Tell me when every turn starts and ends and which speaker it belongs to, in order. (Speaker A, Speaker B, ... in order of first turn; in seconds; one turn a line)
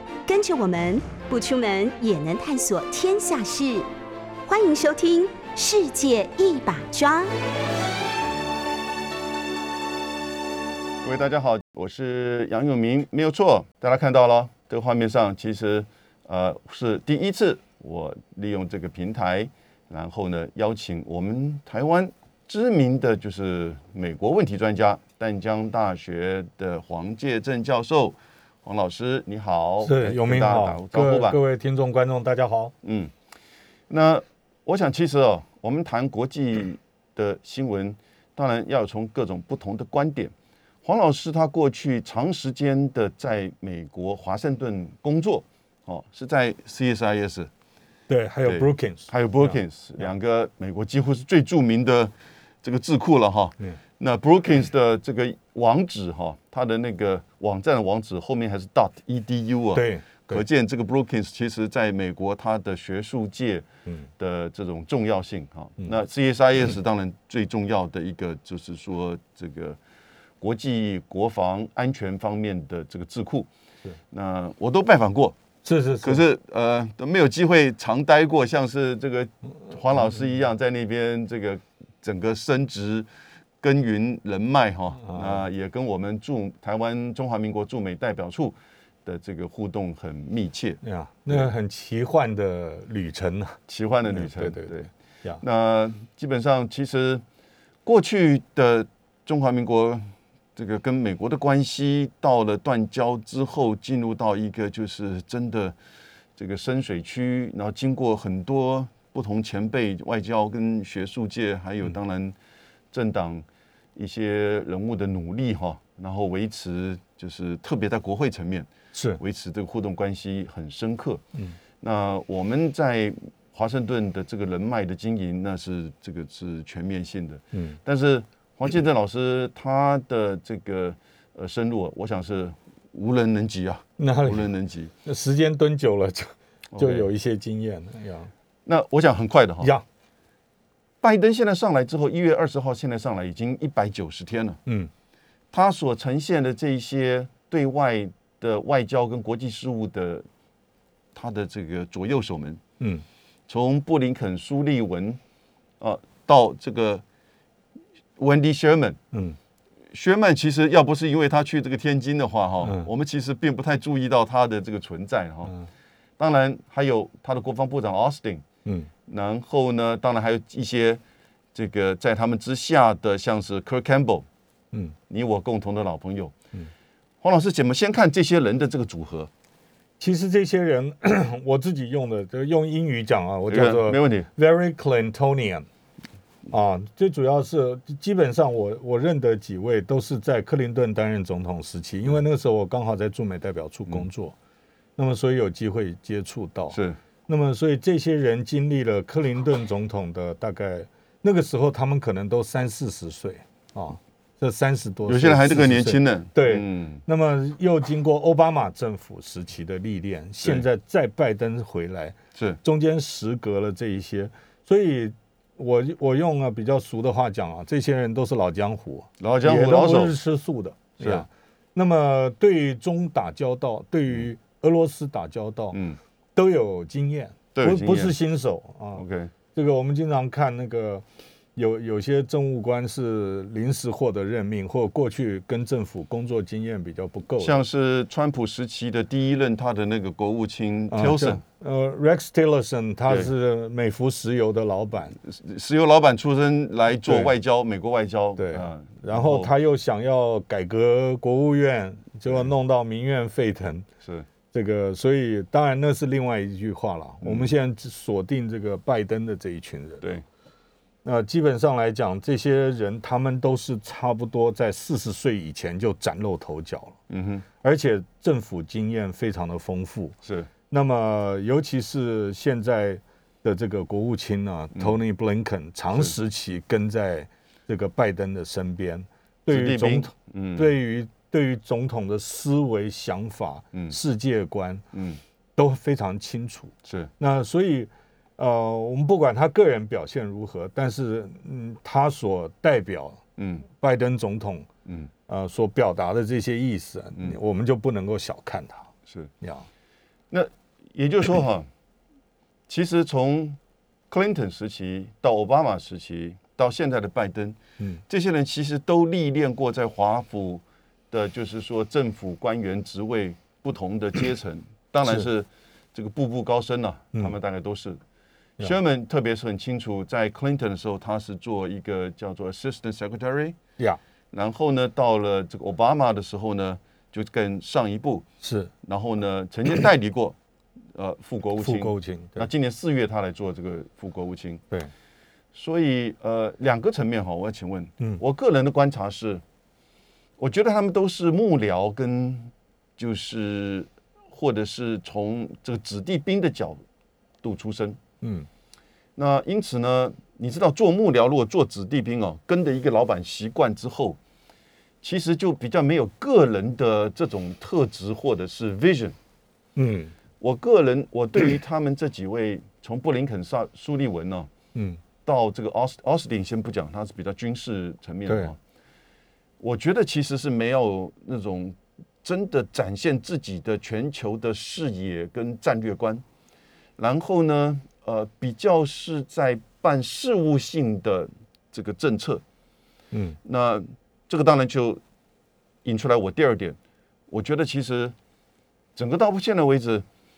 Speaker A: 0.3-3.9
Speaker A: 4.5-7.3
Speaker B: 11.0-31.4
Speaker C: 29.8-32.7
Speaker B: 32.8-33.1
Speaker B: 33.9-40.3
Speaker B: 40.8-47.5
Speaker C: 48.1-49.6
Speaker B: 48.4-63.6
Speaker C: 59.7-60.4
Speaker B: 64.2-69.8
Speaker B: 70.4-73.5
Speaker B: 74.1-75.4
Speaker C: 75.7-76.2
Speaker B: 76.0-83.1
Speaker B: 83.6-90.8
Speaker C: 85.0-85.5
Speaker C: 90.8-93.6
Speaker B: 93.7-94.9
Speaker C: 94.1-95.4
Speaker B: 95.4-97.2
Speaker B: 97.8-100.0
Speaker B: 100.6-105.8
Speaker B: 106.4-112.4
Speaker B: 112.9-113.5
Speaker B: 114.0-121.2
Speaker C: 118.9-119.2
Speaker B: 121.8-134.9
Speaker C: 127.5-127.8
Speaker C: 134.0-134.5
Speaker C: 135.1-138.3
Speaker B: 136.7-137.1
Speaker B: 138.7-139.7
Speaker B: 141.0-144.6
Speaker B: 145.5-150.2
Speaker B: 151.2-152.6
Speaker B: 153.5-155.2
Speaker B: 155.8-157.0
Speaker B: 158.2-159.0
Speaker C: 159.1-159.4
Speaker B: 159.9-165.5
Speaker C: 162.6-162.9
Speaker B: 166.2-168.4
Speaker B: 169.1-171.0
Speaker B: 171.5-174.2
Speaker B: 175.1-176.3
Speaker B: 177.2-179.3
Speaker C: 180.0-185.7
Speaker B: 183.5-184.3
Speaker C: 186.5-194.3
Speaker C: 195.0-225.8
Speaker B: 196.7-197.0
Speaker B: 205.1-207.0
Speaker B: 212.3-212.6
Speaker B: 219.2-220.2
Speaker B: 221.0-221.2
Speaker B: 225.7-226.0
Speaker C: 226.3-229.0
Speaker B: 227.6-228.1
Speaker B: 229.0-229.3
Speaker C: 229.6-231.0
Speaker C: 231.6-237.6
Speaker B: 237.4-241.4
Speaker C: 240.9-245.2
Speaker B: 245.2-249.5
Speaker C: 247.0-247.3
Speaker C: 248.4-253.9
Speaker C: 254.5-260.1
Speaker B: 257.2-257.5
Speaker C: 261.0-267.0
Speaker B: 267.1-267.4
Speaker C: 267.6-270.1
Speaker B: 270.2-270.5
Speaker C: 270.7-284.8
Speaker B: 279.5-280.7
Speaker B: 284.9-285.2
Speaker C: 285.6-293.2
Speaker B: 286.8-287.1
Speaker B: 293.4-293.6
Speaker C: 293.7-294.7
Speaker C: 295.3-299.7
Speaker B: 300.3-301.6
Speaker B: 302.7-318.0
Speaker B: 318.6-323.6
Speaker B: 324.3-328.2
Speaker C: 328.4-328.7
Speaker B: 328.8-330.4
Speaker B: 330.9-334.6
Speaker C: 331.6-332.5
Speaker B: 335.5-339.4
Speaker B: 340.4-346.8
Speaker B: 347.4-348.0
Speaker C: 348.2-348.5
Speaker B: 349.2-354.2
Speaker B: 355.0-359.1
Speaker C: 359.8-360.1
Speaker B: 360.4-364.5
Speaker C: 364.7-365.0
Speaker B: 365.2-368.6
Speaker B: 369.6-376.2
Speaker B: 377.0-382.4
Speaker C: 383.1-383.4
Speaker B: 383.4-385.0
Speaker B: 385.8-386.8
Speaker B: 387.3-388.1
Speaker B: 388.9-390.0